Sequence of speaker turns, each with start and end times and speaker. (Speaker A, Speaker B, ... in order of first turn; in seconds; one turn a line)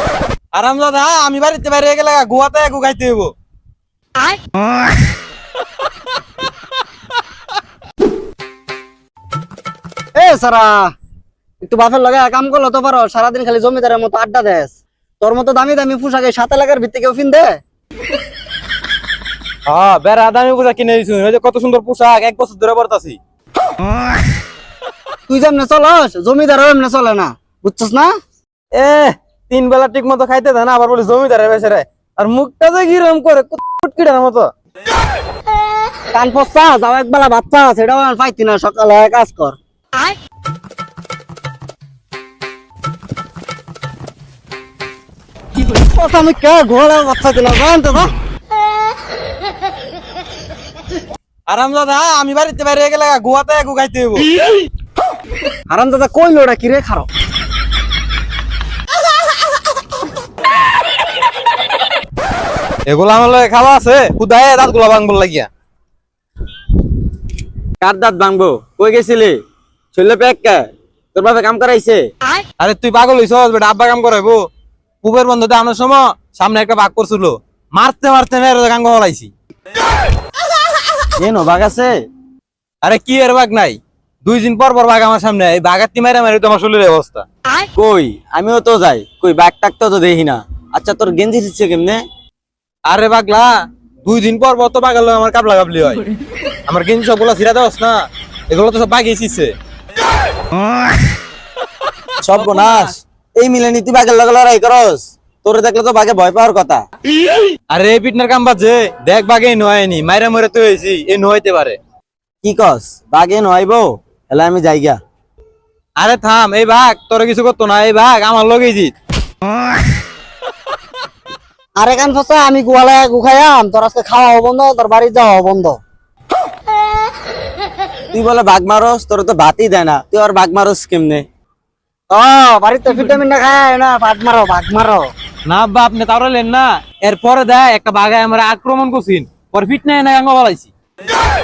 Speaker A: 0.5-3.3
Speaker B: 10.2-10.9
Speaker B: 11.6-17.6
Speaker A: 19.6-23.2
Speaker B: 25.3-28.1
Speaker A: 28.7-34.5
Speaker B: 36.1-39.6
Speaker B: 45.7-48.1
Speaker A: 51.5-54.3
Speaker B: 55.7-57.1
Speaker A: 62.9-65.5
Speaker C: 67.8-69.4
Speaker C: 69.9-72.1
Speaker A: 72.6-74.4
Speaker A: 75.0-79.3
Speaker C: 81.2-82.0
Speaker A: 82.8-87.2
Speaker C: 87.8-92.0
Speaker A: 92.8-93.5
Speaker A: 94.0-96.0
Speaker A: 96.7-99.5
Speaker C: 102.2-106.8
Speaker A: 107.7-111.8
Speaker C: 112.4-115.0
Speaker A: 116.0-118.9
Speaker B: 121.8-125.8
Speaker C: 128.1-131.2
Speaker B: 132.1-135.1
Speaker A: 135.5-140.7